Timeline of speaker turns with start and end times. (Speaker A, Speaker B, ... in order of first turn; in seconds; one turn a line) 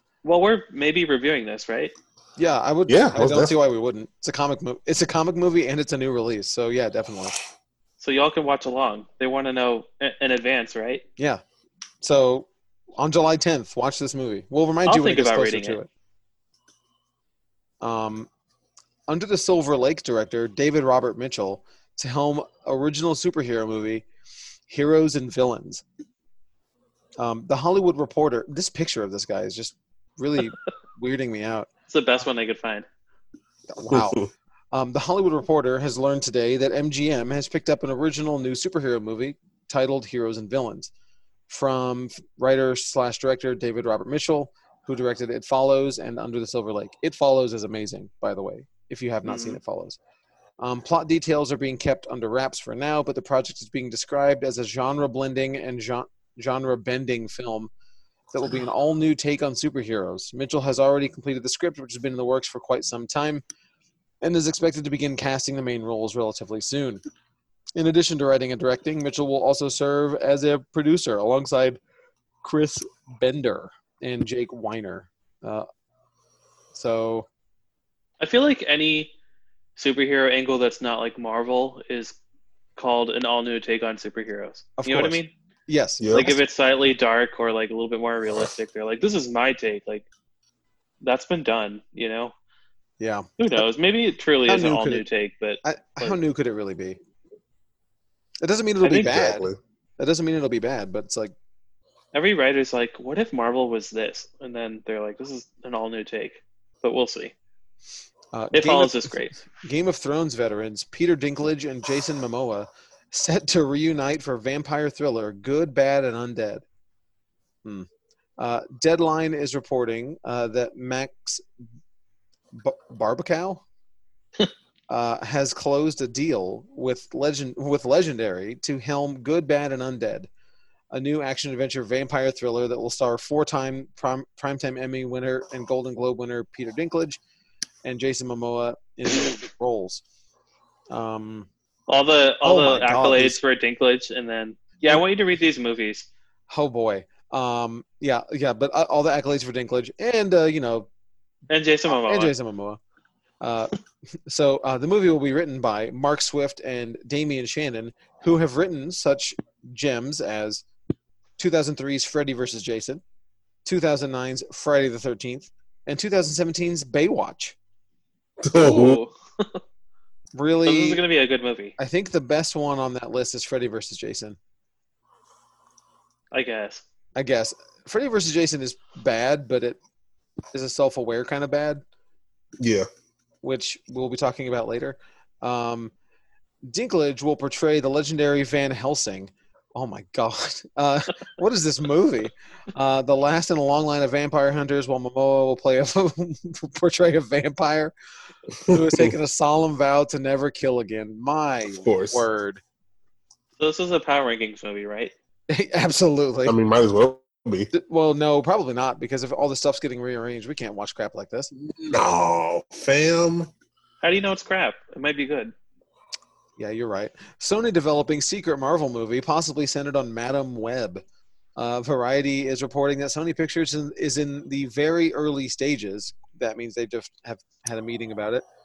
Speaker A: 0.2-1.9
Speaker B: 2.4-7.4
Speaker C: 2.9-3.5
Speaker A: 8.0-11.0
Speaker B: 11.2-11.4
Speaker B: 12.0-15.9
Speaker A: 14.8-15.8
Speaker B: 17.8-18.3
Speaker B: 19.1-24.0
Speaker B: 24.7-25.8
Speaker B: 27.2-31.7
Speaker A: 31.9-32.9
Speaker B: 33.7-40.9
Speaker C: 33.9-34.3
Speaker B: 41.5-50.0
Speaker A: 49.2-49.6
Speaker B: 50.6-57.7
Speaker B: 58.3-63.4
Speaker B: 64.2-67.0
Speaker B: 67.8-71.8
Speaker B: 72.4-75.7
Speaker B: 76.7-77.3
Speaker A: 78.2-79.1
Speaker A: 79.8-82.2
Speaker A: 82.8-85.3
Speaker B: 84.8-86.4
Speaker C: 86.0-86.3
Speaker A: 86.1-90.0
Speaker A: 91.0-92.3
Speaker B: 93.0-93.3
Speaker A: 93.4-96.2
Speaker B: 94.5-95.0
Speaker B: 95.6-97.0
Speaker B: 98.4-99.5
Speaker C: 98.8-99.6
Speaker B: 100.0-101.3
Speaker A: 102.1-107.3
Speaker B: 108.3-116.6
Speaker A: 108.5-109.3
Speaker B: 117.6-121.4
Speaker B: 122.5-123.6
Speaker B: 124.9-130.3
Speaker B: 130.9-137.2
Speaker B: 137.8-140.0
Speaker B: 140.9-141.5
Speaker A: 141.9-146.1
Speaker B: 142.4-143.4
Speaker B: 146.5-150.9
Speaker A: 151.5-152.3
Speaker B: 151.9-152.8
Speaker B: 153.4-153.7
Speaker B: 154.2-160.6
Speaker B: 161.4-163.0
Speaker B: 163.6-167.6
Speaker C: 168.4-169.0
Speaker A: 168.5-169.6
Speaker B: 170.3-171.0
Speaker A: 170.7-171.7
Speaker B: 171.8-174.4
Speaker A: 176.3-176.8
Speaker B: 177.2-179.8
Speaker B: 180.5-181.8
Speaker C: 182.6-182.9
Speaker B: 183.4-185.9
Speaker B: 186.6-197.9
Speaker B: 198.6-202.6
Speaker C: 198.7-199.1
Speaker C: 201.8-202.2
Speaker A: 203.6-205.1
Speaker B: 205.5-206.6
Speaker C: 206.4-207.7
Speaker B: 207.7-211.5
Speaker C: 211.6-213.5
Speaker A: 214.0-215.5
Speaker B: 216.6-221.0
Speaker B: 221.6-228.4